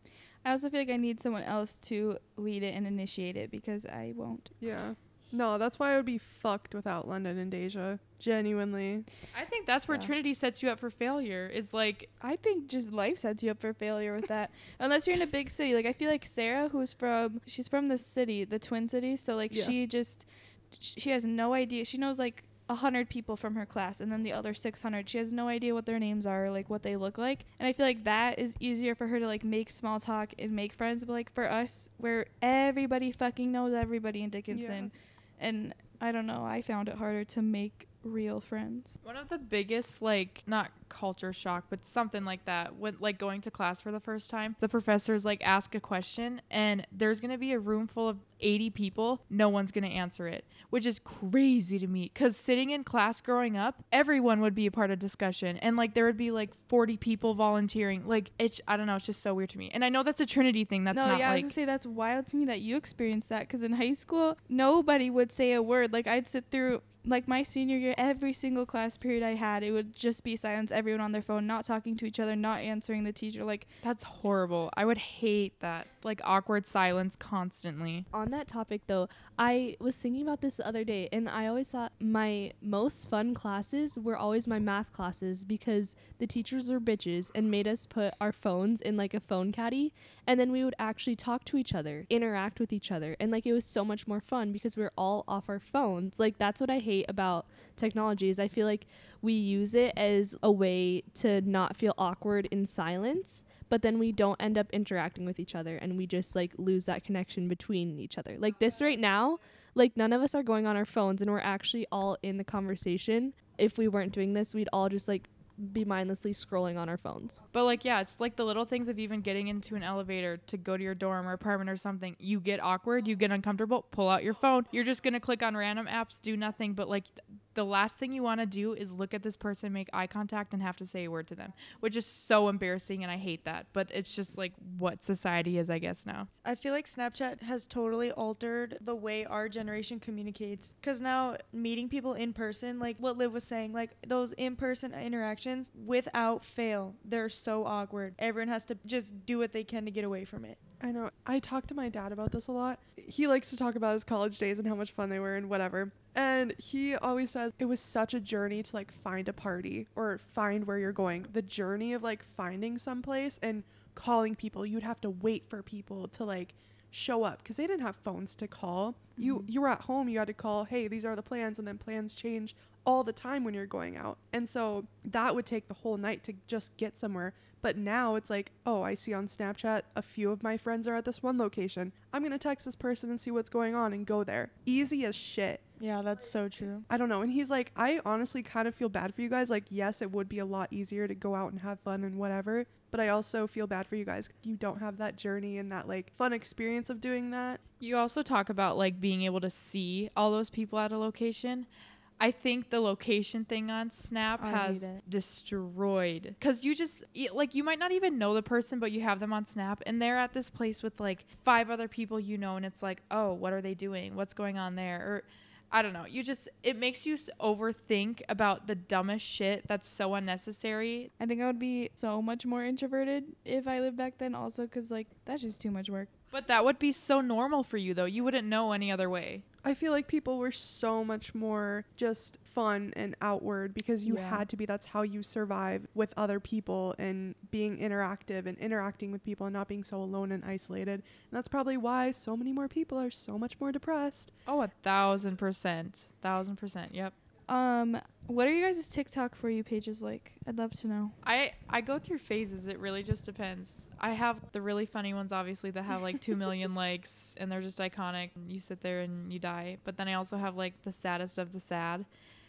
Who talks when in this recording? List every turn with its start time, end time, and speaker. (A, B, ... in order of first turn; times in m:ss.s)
0:00.4-0:04.5 A
0:04.6-0:09.1 B
0:09.3-0:12.1 C
0:12.2-0:39.0 A
0:34.5-0:34.9 B
0:39.0-1:01.5 C
1:00.9-1:13.7 A
1:13.8-1:18.1 C
1:18.1-1:57.4 D
1:57.5-2:16.3 C
2:16.4-2:30.6 E
2:30.8-3:05.6 B
2:49.2-2:49.5 A
3:05.8-3:06.8 E
3:06.9-3:17.6 B
3:17.8-3:21.7 C
3:22.2-3:41.1 C
3:24.4-3:25.0 A
3:41.2-3:46.1 A
3:46.3-3:49.4 C
3:49.6-4:04.3 B
3:54.0-3:54.4 A
4:04.4-4:07.2 C
4:07.5-4:11.1 A
4:11.2-4:22.1 C